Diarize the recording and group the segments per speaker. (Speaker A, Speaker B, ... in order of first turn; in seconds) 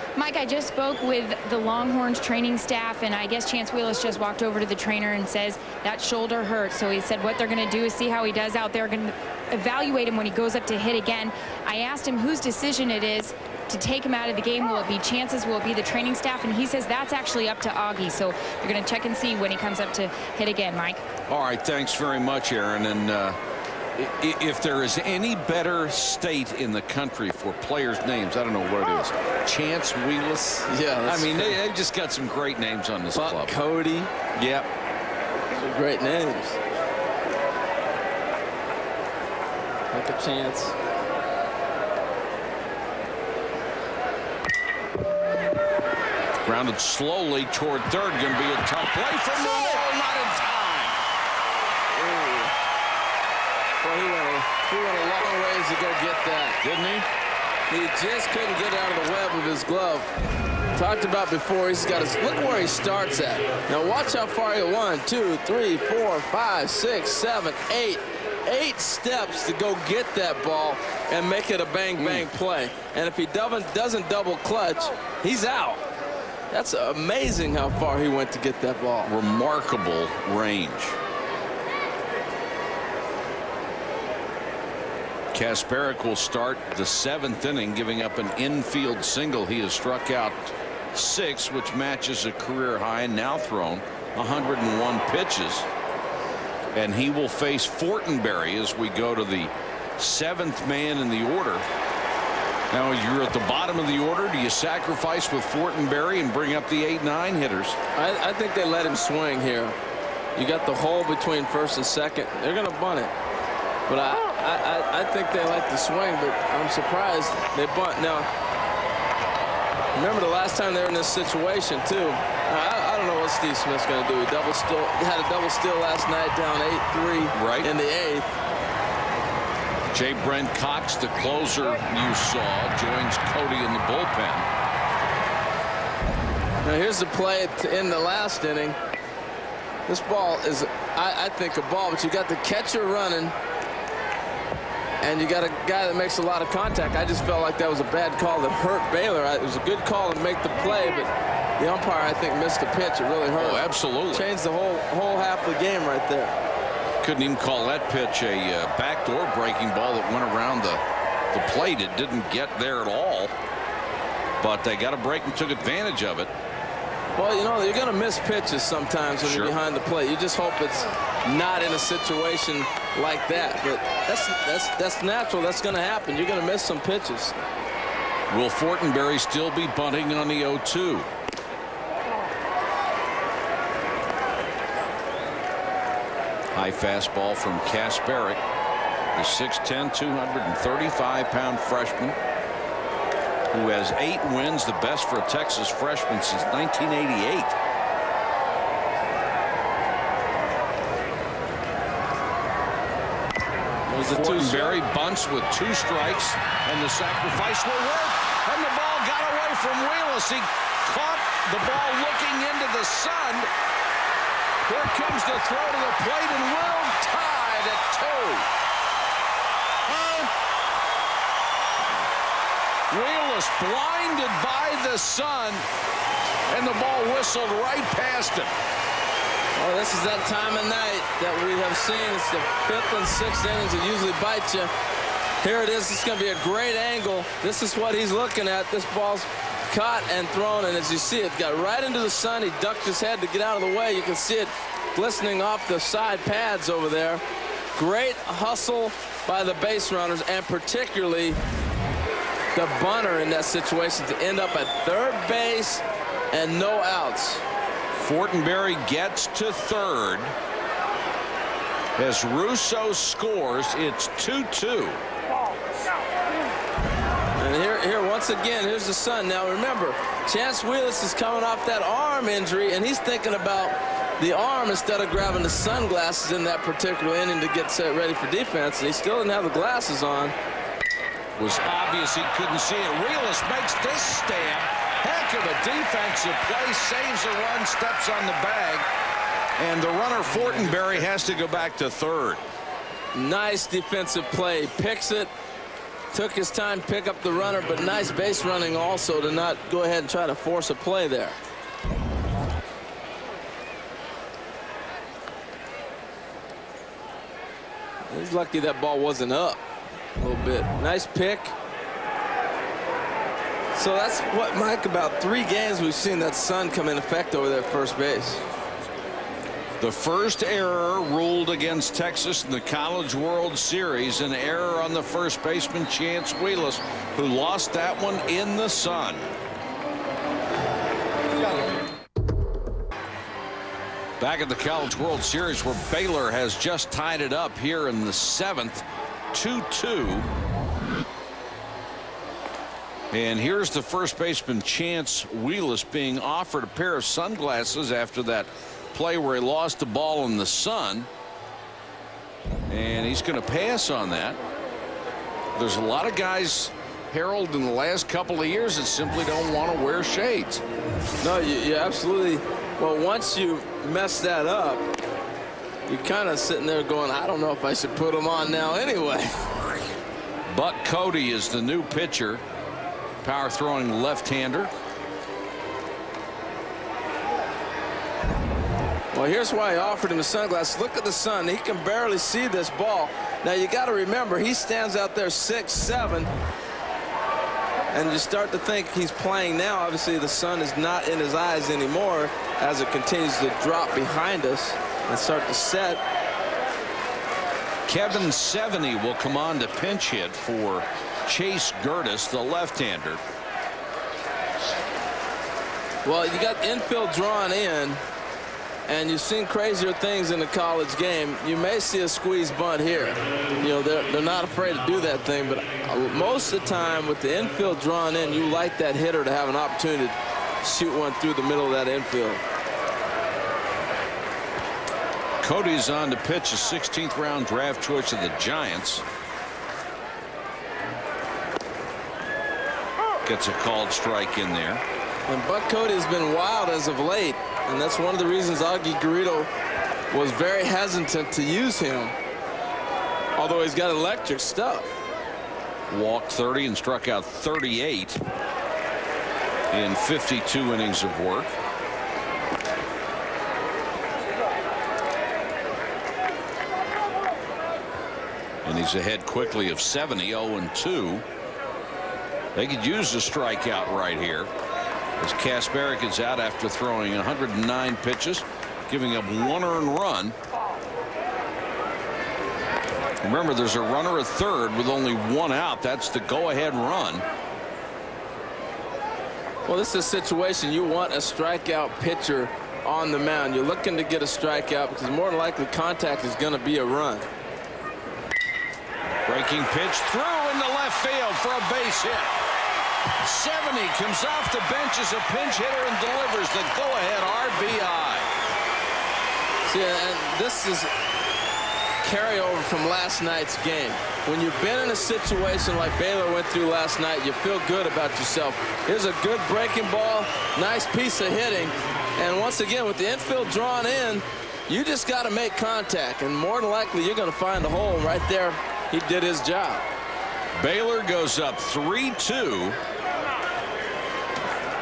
Speaker A: 0.1-21.0
Speaker B: 21.3-23.4, 24.0-33.6, 34.3-34.7, 46.4-51.0, 56.6-57.1, 72.0-72.3, 79.0-81.0, 85.3-95.7, 96.7-101.6, 102.7-107.8, 127.3-127.7, 129.9-134.5, 153.4-154.3, 157.0-163.3, 164.4-166.3, 169.2-169.6, 178.3-181.1, 186.5-188.4, 189.1-192.2, 193.5-197.6, 204.0-213.5, 214.6-218.5, 219.9-220.3, 222.9-225.7, 226.5-228.5, 258.0-260.3, 262.0-265.0, 281.4-288.9, 289.6-292.4, 319.8-329.3, 334.2-340.3, 343.1-351.1, 352.7-354.4, 355.5-360.6, 370.5-372.4, 373.2-374.7, 397.9-403.2, 425.4-429.0, 433.2-434.8, 445.9-448.2, 449.7-451.5, 458.6-461.2, 462.5-464.5, 465.2-470.4, 473.2-477.2, 489.2-492.4, 493.2-498.3, 520.5-522.8
Speaker C: 30.7-31.6, 33.1-34.1, 35.5-36.6, 39.9-40.7, 51.9-52.5, 53.8-56.6, 57.7-60.1, 60.7-75.8, 76.5-79.1, 107.9-109.8, 110.3-113.1, 113.9-118.3, 119.9-128.3, 136.6-138.8, 139.9-143.3, 145.0-156.3, 167.1-177.4, 203.8-204.8, 229.6-234.7, 235.4-247.2, 247.8-251.4, 252.5-257.4, 267.4-280.3, 293.1-295.3, 296.1-301.4, 308.1-309.6, 310.1-311.5, 313.7-318.4, 361.2-364.9, 365.9-369.5, 379.1-386.3, 387.9-396.0, 406.0-408.0, 408.9-422.4, 435.3-439.5, 440.1-442.1, 443.4-444.9, 479.7-487.3, 499.7-500.9, 502.0-519.8